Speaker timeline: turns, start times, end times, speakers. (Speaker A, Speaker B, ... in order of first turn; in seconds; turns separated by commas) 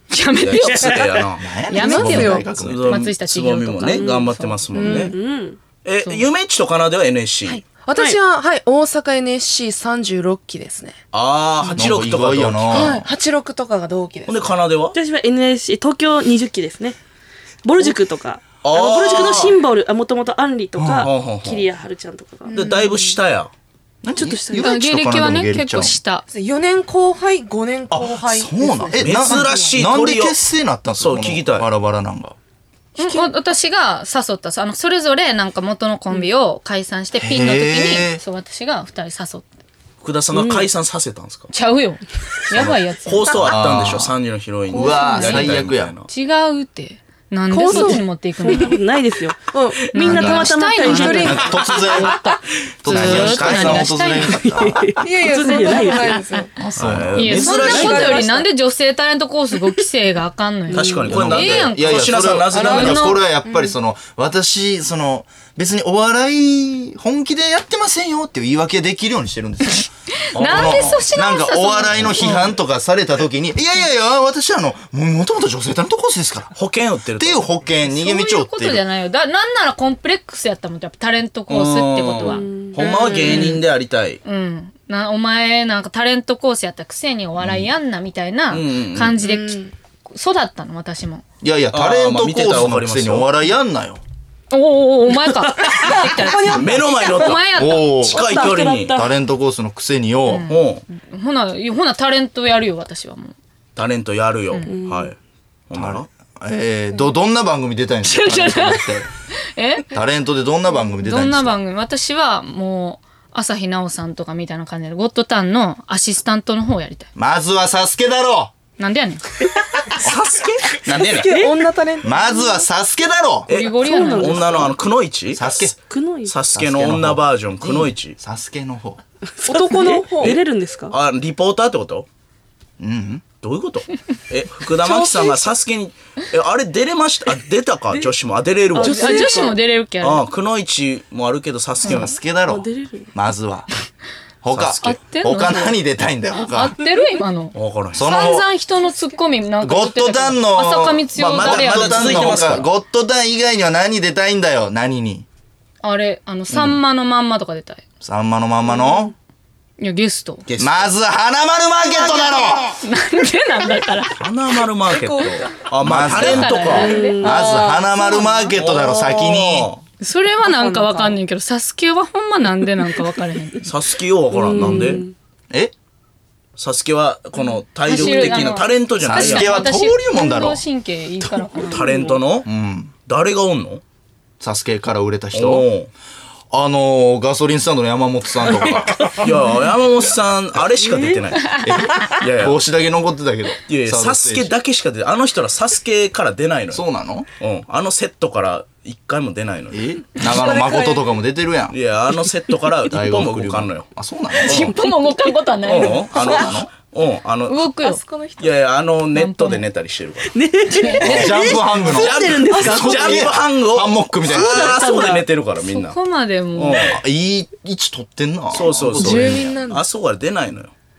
Speaker A: 0.1-4.6, Speaker B: 0.4-1.5, Speaker C: 1.4-2.9, Speaker D: 1.7-2.5, Speaker B: 2.4-5.2, Speaker E: 3.9-5.6, Speaker D: 4.7-5.2, Speaker B: 5.8-7.6, Speaker D: 7.7-11.0, Speaker E: 7.9-8.2, Speaker B: 11.1-13.1, Speaker C: 11.7-13.1, Speaker D: 12.7-14.5, Speaker B: 14.3-15.0, Speaker E: 14.9-17.0, Speaker E: 17.6-22.6, Speaker B: 18.6-19.6, Speaker C: 20.8-21.1, Speaker B: 21.0-21.7, Speaker D: 22.5-23.0, Speaker B: 22.5-23.5, Speaker C: 24.0-26.0, Speaker E: 24.2-24.7, Speaker A: 24.5-26.2, Speaker D: 26.3-29.8, Speaker C: 27.9-32.4, Speaker B: 28.9-30.4, Speaker B: 31.0-31.7, Speaker A: 33.0-39.5, Speaker D: 33.0-33.3, Speaker C: 37.2-38.2, Speaker B: 40.0-41.5, Speaker E: 40.3-40.7, Speaker A: 41.5-43.5, Speaker B: 42.5-46.1, Speaker C: 43.3-44.1, Speaker C: 44.7-46.0, Speaker D: 44.8-45.4, Speaker A: 44.9-48.8, Speaker D: 47.5-48.8, Speaker E: 47.7-51.6, Speaker D: 49.5-52.1, Speaker A: 49.9-54.5, Speaker C: 50.1-50.5, Speaker C: 51.1-54.9, Speaker B: 52.9-53.9, Speaker E: 54.2-56.2, Speaker D: 55.0-56.5, Speaker A: 55.3-56.2, Speaker C: 56.6-57.5, Speaker B: 56.8-58.3, Speaker A: 57.1-63.2, Speaker D: 57.4-58.5, Speaker E: 57.7-58.2, Speaker B: 60.7-63.2, Speaker E: 60.7-61.1, Speaker C: 61.1-76.5, Speaker D: 63.0-63.7, Speaker B: 70.3-71.0, Speaker A: 70.3-72.5, Speaker B: 76.5-77.5, Speaker C: 77.2-78.8, Speaker A: 77.9-82.5, Speaker B: 81.5-84.2, Speaker E: 82.2-83.5, Speaker D: 82.8-83.5, Speaker A: 83.2-83.5, Speaker A: 84.2-91.2, Speaker C: 87.4-87.7, Speaker B: 88.5-89.2, Speaker D: 89.2-89.7, Speaker C: 91.4-94.0, Speaker B: 91.7-93.3, Speaker A: 94.5-98.0, Speaker E: 95.6-96.5, Speaker D: 95.7-96.7, Speaker B: 96.4-97.5, Speaker C: 97.5-100.5, Speaker B: 98.0-99.0, Speaker E: 98.0-99.1, Speaker A: 100.3-103.4, Speaker B: 100.5-100.8, Speaker B: 103.8-105.2, Speaker E: 104.7-105.1, Speaker B: 105.7-106.1, Speaker C: 105.7-109.1, Speaker A: 108.0-109.9, Speaker C: 109.9-111.6, Speaker A: 111.0-117.1, Speaker C: 117.2-118.5, Speaker A: 118.8-119.5, Speaker C: 120.0-120.8, Speaker B: 120.0-121.5, Speaker D: 121.1-122.5, Speaker E: 121.3-122.1, Speaker C: 122.0-123.5, Speaker A: 123.5-124.7, Speaker B: 123.5-125.7, Speaker E: 123.8-124.8, Speaker C: 125.3-125.8, Speaker E: 125.9-126.3, Speaker B: 126.3-128.2, Speaker C: 126.5-129.0, Speaker D: 129.4-130.4, Speaker E: 129.5-130.9, Speaker B: 130.2-132.1, Speaker C: 132.8-133.2, Speaker B: 133.4-139.3, Speaker E: 134.9-135.2, Speaker E: 138.7-139.6, Speaker A: 138.8-140.3, Speaker B: 140.0-142.2, Speaker C: 141.8-143.7, Speaker E: 142.4-143.1, Speaker C: 144.4-146.8, Speaker B: 144.5-145.0, Speaker A: 144.8-145.8, Speaker A: 146.5-152.6, Speaker B: 147.5-148.1, Speaker C: 147.9-148.5, Speaker C: 149.6-155.3, Speaker B: 151.2-152.7, Speaker A: 155.8-157.8, Speaker C: 158.0-159.1, Speaker A: 159.8-160.4, Speaker B: 160.5-160.9, Speaker C: 160.6-162.8, Speaker A: 162.8-164.2, Speaker B: 164.2-167.0, Speaker D: 164.9-165.5, Speaker C: 165.8-169.7, Speaker A: 165.9-167.3, Speaker E: 166.7-167.6, Speaker D: 166.8-168.4, Speaker B: 168.5-169.8, Speaker A: 170.0-173.7, Speaker D: 170.5-171.1, Speaker B: 173.6-175.1, Speaker E: 174.3-175.1, Speaker C: 174.6-174.9, Speaker B: 176.6-179.6, Speaker A: 177.8-182.0, Speaker C: 179.0-180.6, Speaker B: 181.6-182.5, Speaker E: 181.6-182.2, Speaker C: 182.4-182.9, Speaker B: 183.1-183.8, Speaker C: 184.4-185.7, Speaker B: 185.3-185.9, Speaker C: 186.5-189.4, Speaker B: 189.1-191.5, Speaker C: 191.6-194.5, Speaker B: 192.0-192.6, Speaker B: 193.7-196.8, Speaker C: 196.7-197.3, Speaker B: 197.4-199.9, Speaker C: 199.7-201.8, Speaker D: 200.2-201.1, Speaker B: 201.7-203.9, Speaker C: 202.9-204.7, Speaker A: 204.3-206.5, Speaker B: 204.4-204.8, Speaker B: 205.6-207.7, Speaker C: 206.1-206.7, Speaker A: 207.5-208.0, Speaker D: 207.8-208.6, Speaker B: 208.4-210.4, Speaker A: 209.1-209.7, Speaker E: 210.3-213.3, Speaker A: 210.7-211.5, Speaker C: 211.0-214.8, Speaker B: 211.2-216.0, Speaker E: 214.4-215.2, Speaker A: 215.6-216.9, Speaker B: 216.6-217.0, Speaker C: 216.8-219.6, Speaker B: 218.5-220.7, Speaker D: 218.9-219.8